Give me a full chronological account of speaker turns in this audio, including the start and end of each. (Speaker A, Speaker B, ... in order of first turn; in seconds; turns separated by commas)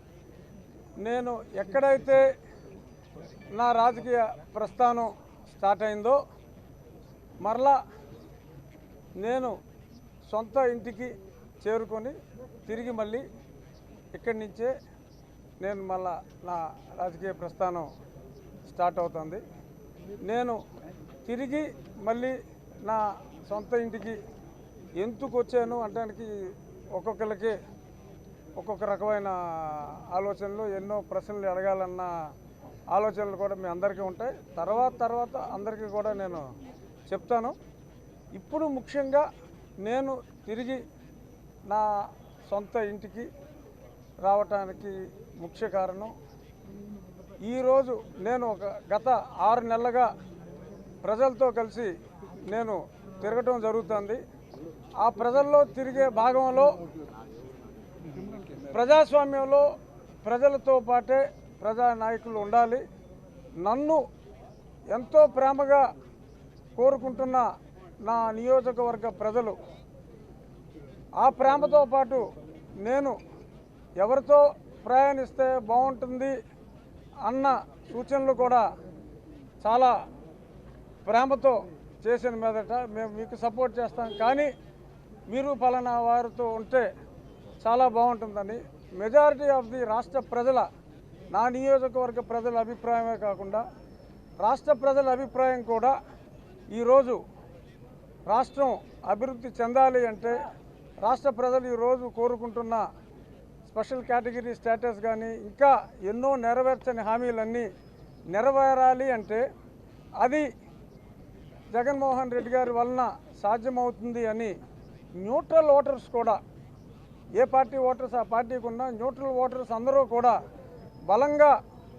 Speaker A: 1.0-2.3, Speaker A: 3.5-6.2, Speaker A: 7.4-7.8, Speaker A: 9.2-9.6, Speaker A: 10.3-13.2, Speaker A: 14.1-14.7, Speaker A: 15.6-17.9, Speaker A: 18.7-19.4, Speaker A: 20.2-20.6, Speaker A: 21.2-24.2, Speaker A: 25.0-26.3, Speaker A: 26.9-27.6, Speaker A: 28.6-32.1, Speaker A: 32.9-36.5, Speaker A: 37.1-37.5, Speaker A: 38.3-39.2, Speaker A: 39.8-40.8, Speaker A: 42.5-43.3, Speaker A: 44.2-46.1, Speaker A: 47.4-50.1, Speaker A: 51.0-51.9, Speaker A: 52.5-54.2, Speaker A: 55.0-56.8, Speaker A: 58.7-59.7, Speaker A: 60.2-62.8, Speaker A: 63.6-64.0, Speaker A: 64.9-65.9, Speaker A: 66.8-67.5, Speaker A: 68.0-69.6, Speaker A: 71.2-72.2, Speaker A: 72.8-73.2, Speaker A: 74.0-76.3, Speaker A: 77.2-78.6, Speaker A: 79.6-80.0, Speaker A: 81.0-84.5, Speaker A: 85.3-86.9, Speaker A: 87.6-90.7, Speaker A: 91.3-93.6, Speaker A: 94.4-96.0, Speaker A: 96.7-97.2, Speaker A: 98.3-100.5, Speaker A: 101.0-102.8, Speaker A: 103.7-107.7, Speaker A: 108.3-109.4, Speaker A: 110.2-110.5, Speaker A: 111.7-114.5, Speaker A: 115.2-116.4, Speaker A: 117.3-120.4, Speaker A: 121.1-121.5